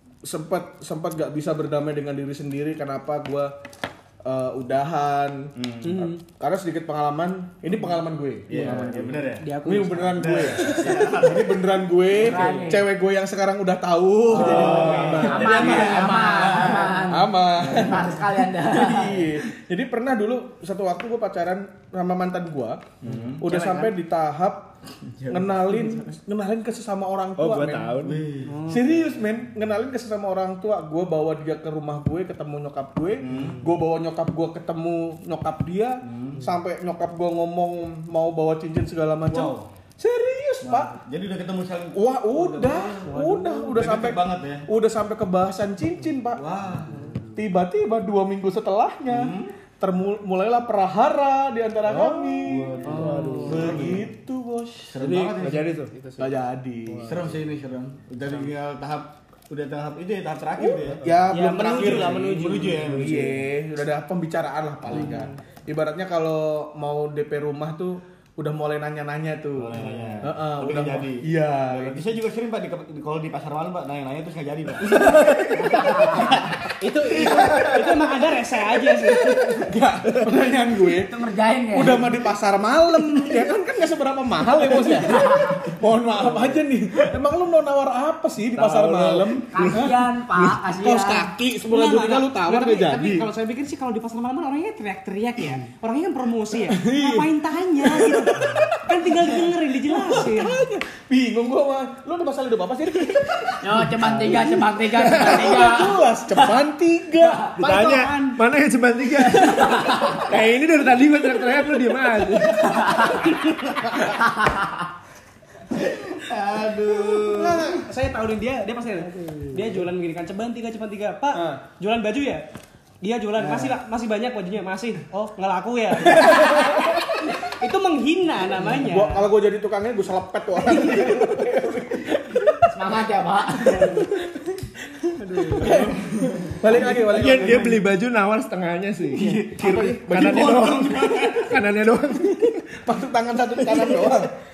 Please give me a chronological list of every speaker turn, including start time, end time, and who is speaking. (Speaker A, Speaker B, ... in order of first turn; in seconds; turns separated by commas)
Speaker A: 0.2-3.5, Speaker A: 4.2-24.7, Speaker B: 5.6-6.0, Speaker C: 5.8-6.2, Speaker B: 8.5-9.5, Speaker C: 9.4-11.1, Speaker B: 10.1-11.6, Speaker C: 12.1-12.9, Speaker D: 12.3-12.6, Speaker B: 14.3-17.1, Speaker E: 14.3-15.8, Speaker D: 15.2-19.2, Speaker B: 23.0-23.5, Speaker C: 23.1-23.9, Speaker A: 25.3-27.9, Speaker E: 27.4-28.3, Speaker B: 28.0-28.6, Speaker C: 28.4-29.2, Speaker A: 28.6-41.0, Speaker B: 33.2-33.7, Speaker B: 36.0-36.5, Speaker B: 39.3-39.7, Speaker B: 40.6-44.7, Speaker A: 41.9-46.4, Speaker C: 42.5-43.8, Speaker B: 46.4-47.2, Speaker C: 46.9-47.2, Speaker A: 47.4-54.9, Speaker B: 49.1-49.5, Speaker B: 51.9-54.1, Speaker E: 52.5-53.9, Speaker C: 52.8-53.9, Speaker B: 54.9-55.7, Speaker E: 55.0-55.9, Speaker C: 55.9-56.4, Speaker A: 56.2-57.1, Speaker E: 56.9-57.4, Speaker B: 57.0-61.0, Speaker A: 60.6-72.1, Speaker E: 61.0-61.3, Speaker C: 61.3-62.9, Speaker B: 61.8-63.5, Speaker C: 64.9-65.3, Speaker B: 69.6-76.5, Speaker A: 75.0-75.4, Speaker D: 75.5-76.4, Speaker C: 76.2-79.7, Speaker A: 79.6-81.1, Speaker D: 81.0-82.1, Speaker A: 81.7-93.3, Speaker E: 88.5-89.5, Speaker D: 89.5-91.3, Speaker C: 91.7-100.6, Speaker A: 96.7-98.6, Speaker A: 99.9-107.5, Speaker D: 103.6-106.6, Speaker C: 107.6-108.4, Speaker E: 107.6-113.2, Speaker D: 109.6-110.2, Speaker D: 112.7-113.2, Speaker D: 114.2-114.7, Speaker B: 115.7-117.8, Speaker C: 117.4-122.5, Speaker E: 119.0-119.9, Speaker A: 121.3-121.6, Speaker C: 123.0-129.3, Speaker A: 128.7-132.6, Speaker C: 130.7-131.2, Speaker D: 132.7-134.0, Speaker C: 133.7-134.1, Speaker C: 135.2-136.0, Speaker A: 135.6-137.8, Speaker E: 137.1-142.7, Speaker C: 139.2-139.5, Speaker B: 139.2-141.5, Speaker A: 139.6-141.0, Speaker A: 142.8-144.3, Speaker B: 143.6-144.1